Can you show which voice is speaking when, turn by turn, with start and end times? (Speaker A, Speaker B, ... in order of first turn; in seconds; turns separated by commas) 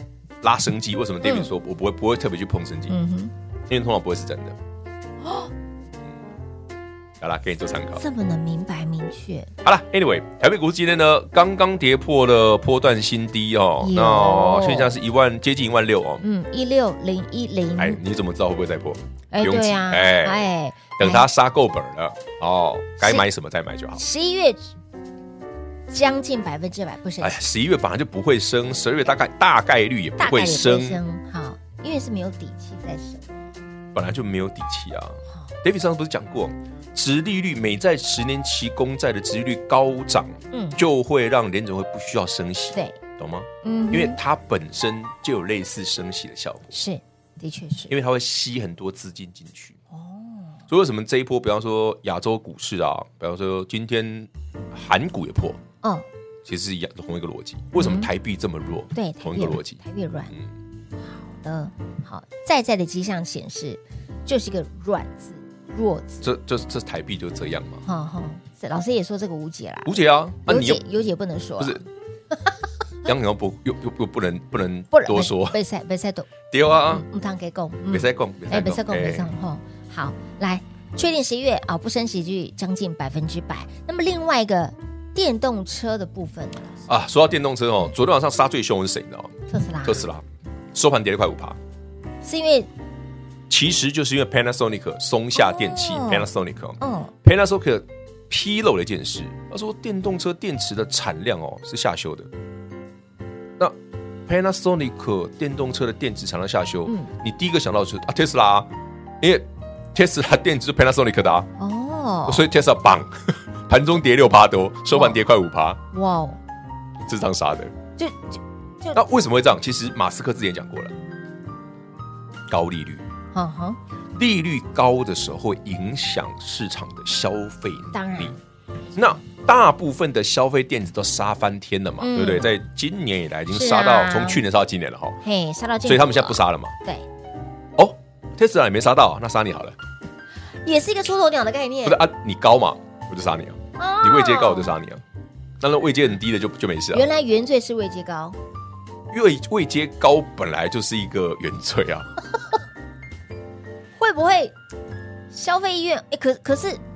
Speaker A: 0.4-3.0, Speaker B: 1.2-1.5, Speaker B: 2.9-3.3, Speaker A: 3.7-4.6, Speaker B: 5.2-5.5, Speaker A: 7.2-8.0, Speaker B: 8.0-9.5, Speaker A: 9.6-16.2, Speaker B: 13.8-14.9, Speaker B: 16.2-18.0, Speaker A: 17.8-24.0, Speaker B: 19.3-21.3, Speaker B: 23.0-23.3, Speaker B: 24.0-24.7, Speaker B: 25.9-27.4, Speaker A: 27.2-31.0, Speaker B: 30.2-33.2, Speaker A: 33.9-46.7, Speaker B: 40.5-40.8, Speaker B: 43.6-44.2, Speaker B: 46.7-47.9, Speaker A: 47.9-49.8, Speaker B: 49.9-50.6, Speaker A: 50.7-55.6, Speaker A: 56.5-59.8, Speaker B: 57.8-58.1, Speaker B: 59.0-60.3, Speaker B: 61.0-66.3, Speaker A: 66.2-67.8, Speaker B: 67.8-71.9, Speaker A: 69.8-70.8, Speaker A: 73.0-75.6, Speaker B: 74.9-76.3, Speaker A: 76.5-77.0, Speaker B: 76.9-86.9, Speaker A: 77.9-79.3, Speaker A: 86.9-91.6, Speaker B: 89.5-90.0, Speaker B: 92.2-92.7, Speaker A: 93.5-102.3, Speaker B: 95.4-96.3, Speaker B: 96.8-97.1, Speaker A: 104.3-111.5, Speaker B: 111.6-112.5, Speaker A: 112.3-115.8, Speaker B: 114.9-115.2, Speaker B: 115.9-116.4, Speaker A: 117.1-117.7, Speaker B: 118.0-119.0, Speaker A: 119.0-120.9, Speaker A: 122.5-123.1, Speaker B: 123.3-123.8, Speaker A: 124.2-128.3, Speaker B: 127.9-128.4, Speaker A: 128.9-135.2, Speaker B: 132.0-132.5, Speaker B: 133.5-134.4, Speaker B: 135.2-137.0, Speaker A: 135.9-136.8, Speaker A: 137.8-139.8, Speaker B: 140.6-142.0, Speaker A: 141.8-145.0, Speaker B: 143.8-144.8, Speaker A: 145.6-147.1, Speaker B: 146.9-148.4, Speaker A: 149.1-152.1, Speaker B: 154.0-154.5, Speaker B: 155.3-156.8